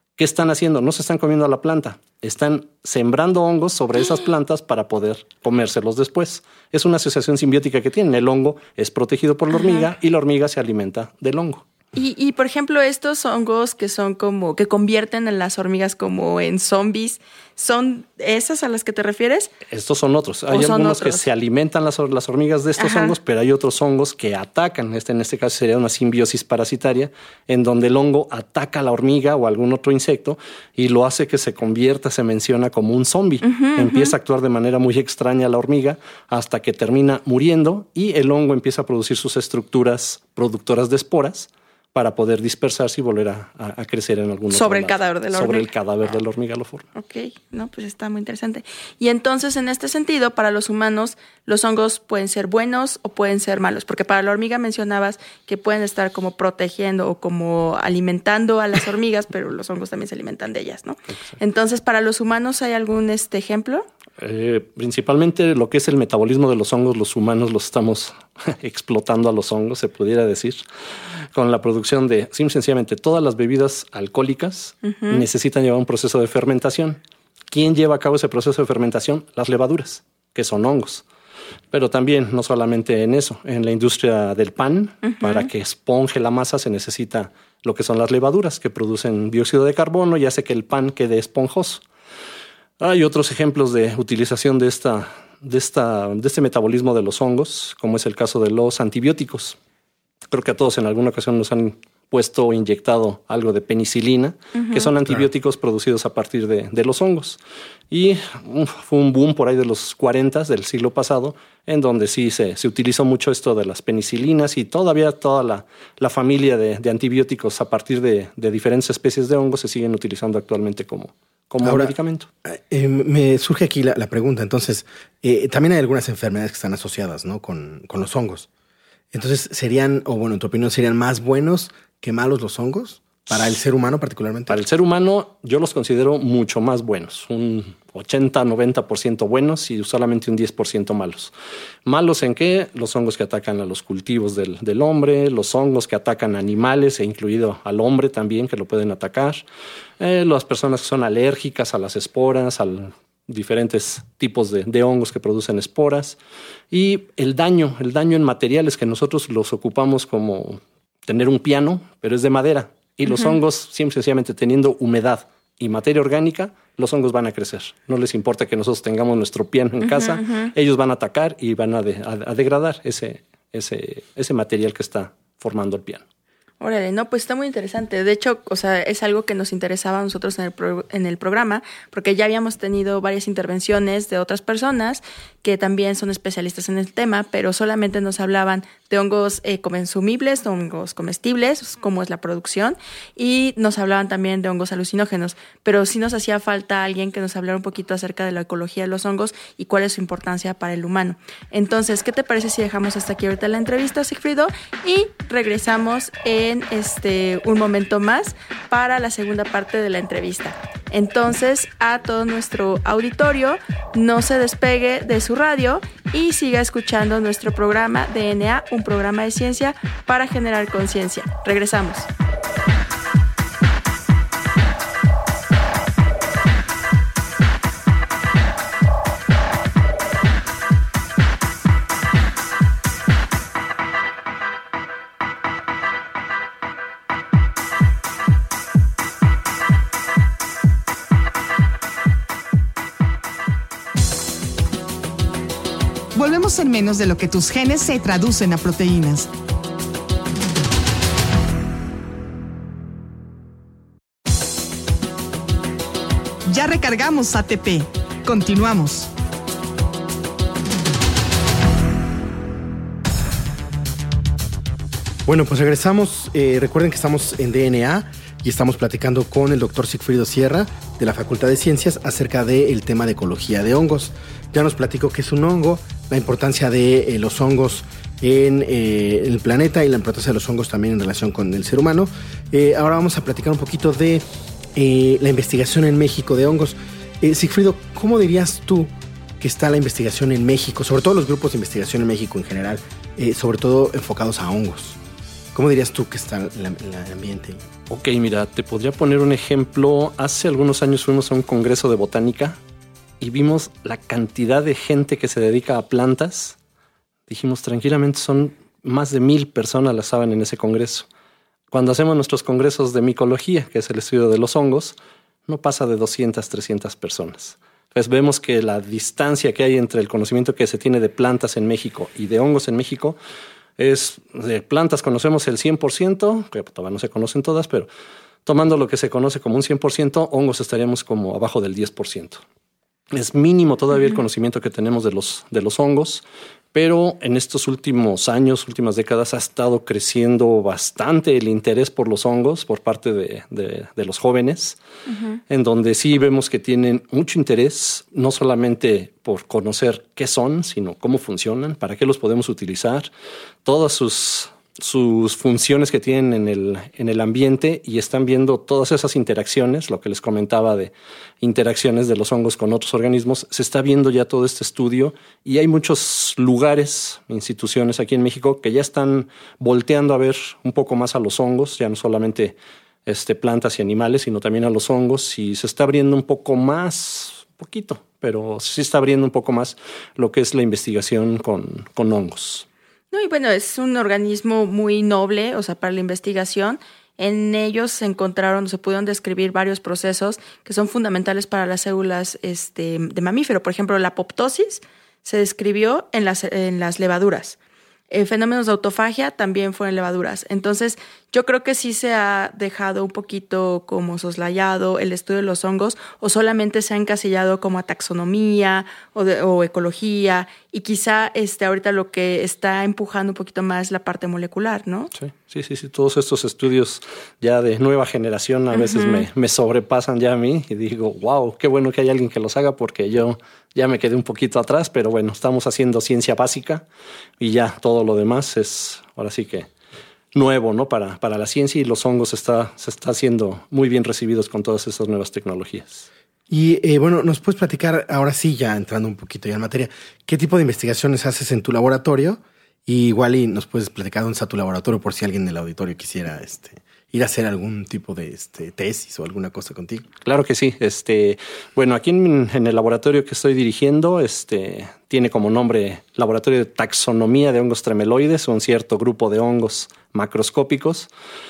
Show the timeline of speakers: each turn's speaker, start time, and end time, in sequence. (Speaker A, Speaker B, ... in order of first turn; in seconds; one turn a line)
Speaker A: 0.2-11.6
Speaker B: 9.5-9.8
Speaker B: 11.9-19.5
Speaker A: 19.7-46.9
Speaker B: 20.5-21.2
Speaker B: 22.8-23.1
Speaker B: 33.4-34.1
Speaker B: 44.5-45.7
Speaker B: 47.0-63.9
Speaker A: 64.2-70.6
Speaker A: 71.3-77.0
Speaker B: 74.8-75.2
Speaker A: 77.5-81.0
Speaker A: 81.7-91.8
Speaker B: 85.0-85.5
Speaker A: 92.8-99.6
Speaker A: 100.3-107.4
Speaker B: 104.5-104.9
Speaker A: 107.9-122.3
Speaker C: 121.6-121.9
Speaker C: 122.4-128.5
Speaker C: 129.1-134.6
Speaker A: 134.5-141.3
Speaker A: 141.8-149.4
Speaker A: 150.0-156.2
Speaker A: 156.7-176.0
Speaker B: 163.1-163.3
Speaker B: 169.8-170.5
Speaker B: 176.6-222.1
Speaker D: 246.1-249.3
Speaker D: 256.5-259.1
Speaker C: 265.2-284.2
Speaker C: 284.7-295.0
Speaker C: 295.5-297.6
Speaker A: 297.9-302.6
Speaker A: 303.2-306.6
Speaker A: 307.3-311.1
Speaker A: 311.7-314.9
Speaker A: 315.5-323.2
Speaker A: 323.8-327.9
Speaker A: 328.4-332.4
Speaker A: 333.1-344.8
Speaker B: 345.1-345.4
Speaker A: 345.5-353.1
Speaker A: 353.6-382.6
Speaker B: 383.1-397.6
Speaker B: 398.1-415.1
Speaker A: 415.1-426.8
Speaker B: 418.7-419.2
Speaker A: 427.4-429.7
Speaker A: 430.3-436.1
Speaker C: 436.5-450.1
Speaker A: 450.2-461.1